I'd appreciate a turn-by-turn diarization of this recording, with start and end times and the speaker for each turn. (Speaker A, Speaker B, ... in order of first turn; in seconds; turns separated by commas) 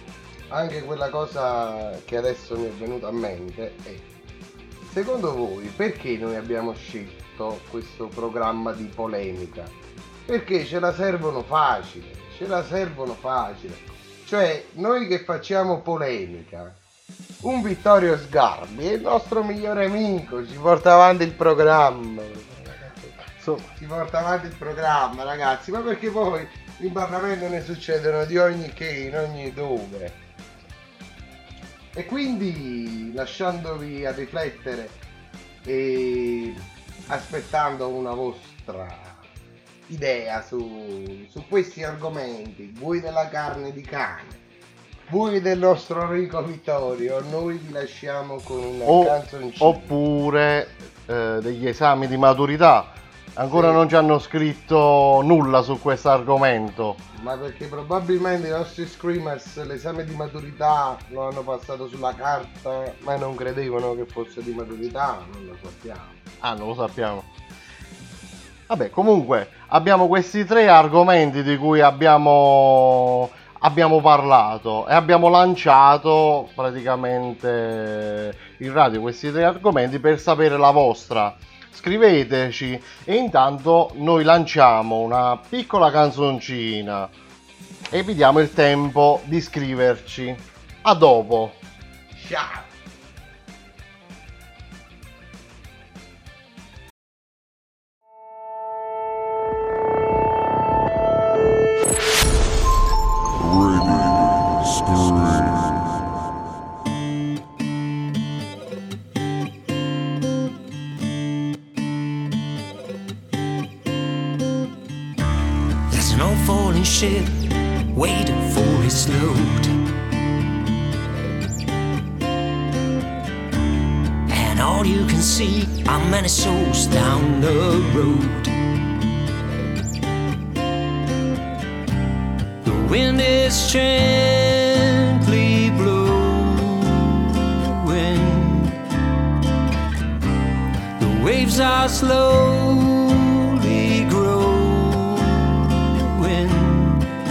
Speaker A: 0.5-4.0, Speaker A: 4.9-9.7, Speaker A: 10.3-16.8, Speaker A: 17.4-23.1, Speaker B: 23.4-23.7, Speaker A: 23.8-30.2, Speaker A: 31.9-35.0, Speaker A: 35.6-39.2, Speaker A: 39.9-44.4, Speaker A: 45.1-49.9, Speaker B: 48.8-57.0, Speaker A: 53.5-53.8, Speaker A: 57.1-66.2, Speaker B: 66.4-67.3, Speaker B: 68.7-87.1, Speaker B: 87.9-91.6, Speaker A: 92.1-92.7, Speaker C: 115.9-117.3, Speaker C: 117.9-119.7, Speaker C: 124.3-128.5, Speaker C: 132.6-138.8, Speaker C: 141.0-147.1